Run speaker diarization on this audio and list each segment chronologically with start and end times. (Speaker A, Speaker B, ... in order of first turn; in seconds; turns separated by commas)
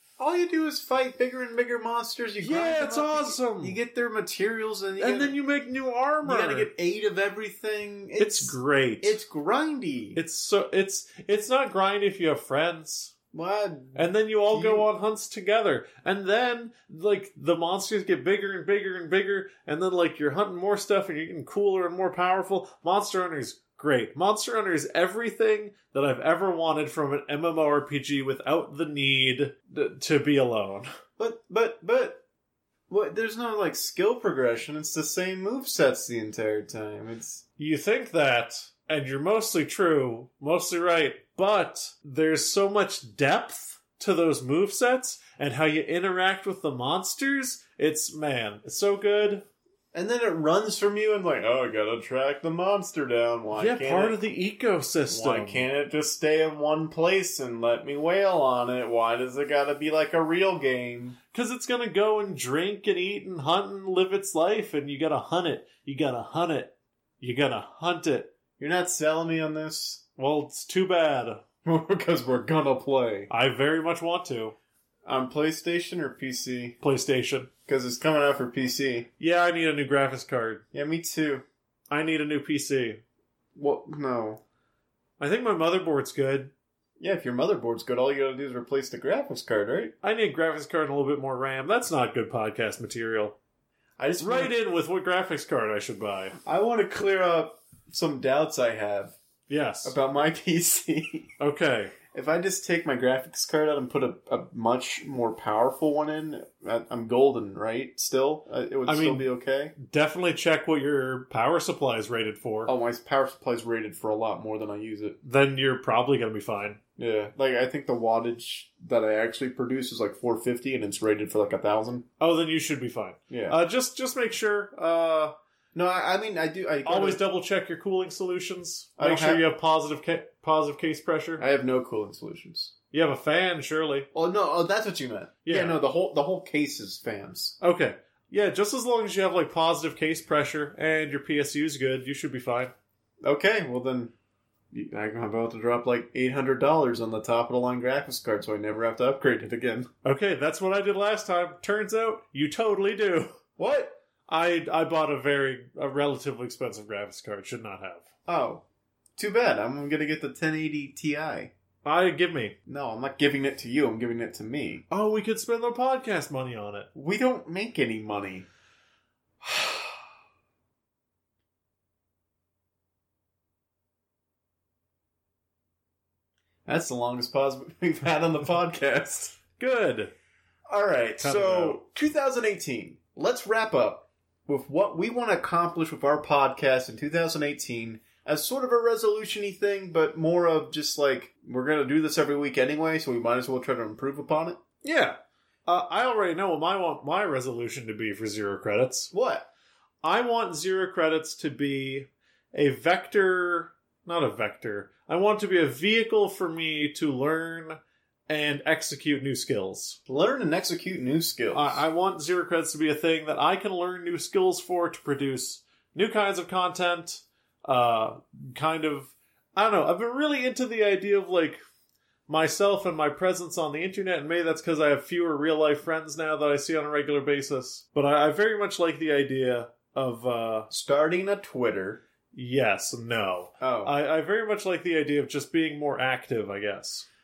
Speaker A: 0.2-5.3, Speaker B: 2.4-3.8, Speaker B: 5.0-6.7, Speaker A: 6.2-10.2, Speaker B: 8.2-9.2, Speaker B: 10.2-13.1, Speaker A: 13.3-14.9, Speaker B: 13.9-30.9, Speaker A: 31.2-32.2, Speaker A: 32.9-37.4, Speaker B: 37.6-49.5, Speaker A: 49.9-54.2, Speaker B: 53.6-55.6, Speaker A: 55.1-61.2, Speaker B: 61.3-68.3, Speaker A: 68.6-70.0, Speaker B: 70.2-71.4, Speaker A: 71.6-73.3, Speaker B: 73.3-74.5, Speaker A: 75.0-76.8, Speaker B: 76.8-77.5, Speaker A: 77.7-79.1, Speaker B: 79.2-80.6, Speaker A: 80.7-81.4, Speaker B: 81.9-83.0, Speaker A: 83.5-84.4, Speaker B: 85.2-86.5, Speaker A: 87.0-89.9, Speaker B: 90.0-93.3, Speaker A: 94.0-94.5, Speaker B: 94.2-96.4, Speaker A: 96.5-99.2, Speaker B: 99.5-99.9, Speaker A: 99.8-101.3, Speaker B: 101.4-101.9, Speaker A: 102.1-109.7, Speaker B: 108.8-112.7, Speaker A: 112.7-115.2, Speaker B: 115.2-116.8, Speaker A: 117.0-122.1, Speaker B: 122.2-125.3, Speaker A: 123.3-123.6, Speaker A: 125.7-127.2, Speaker B: 126.8-131.4, Speaker A: 129.0-129.4, Speaker A: 131.4-132.7, Speaker B: 132.9-134.1, Speaker A: 134.1-137.6, Speaker B: 135.4-135.8, Speaker B: 137.6-142.7, Speaker A: 143.2-144.1, Speaker A: 144.7-149.9, Speaker B: 150.0-153.4, Speaker A: 153.6-153.9, Speaker B: 154.3-158.1, Speaker A: 158.2-158.6, Speaker A: 159.2-161.5, Speaker B: 161.8-162.6, Speaker A: 162.7-164.8, Speaker B: 164.9-166.9, Speaker A: 166.9-168.4, Speaker A: 169.4-169.9, Speaker A: 176.7-179.4, Speaker B: 179.6-180.1, Speaker A: 180.7-194.6, Speaker B: 181.2-181.8, Speaker B: 194.8-199.1, Speaker A: 199.1-199.5, Speaker B: 200.0-210.0, Speaker A: 210.1-211.8, Speaker B: 211.5-221.6, Speaker B: 222.3-230.7, Speaker A: 230.7-232.0, Speaker B: 232.3-237.1, Speaker A: 233.6-233.9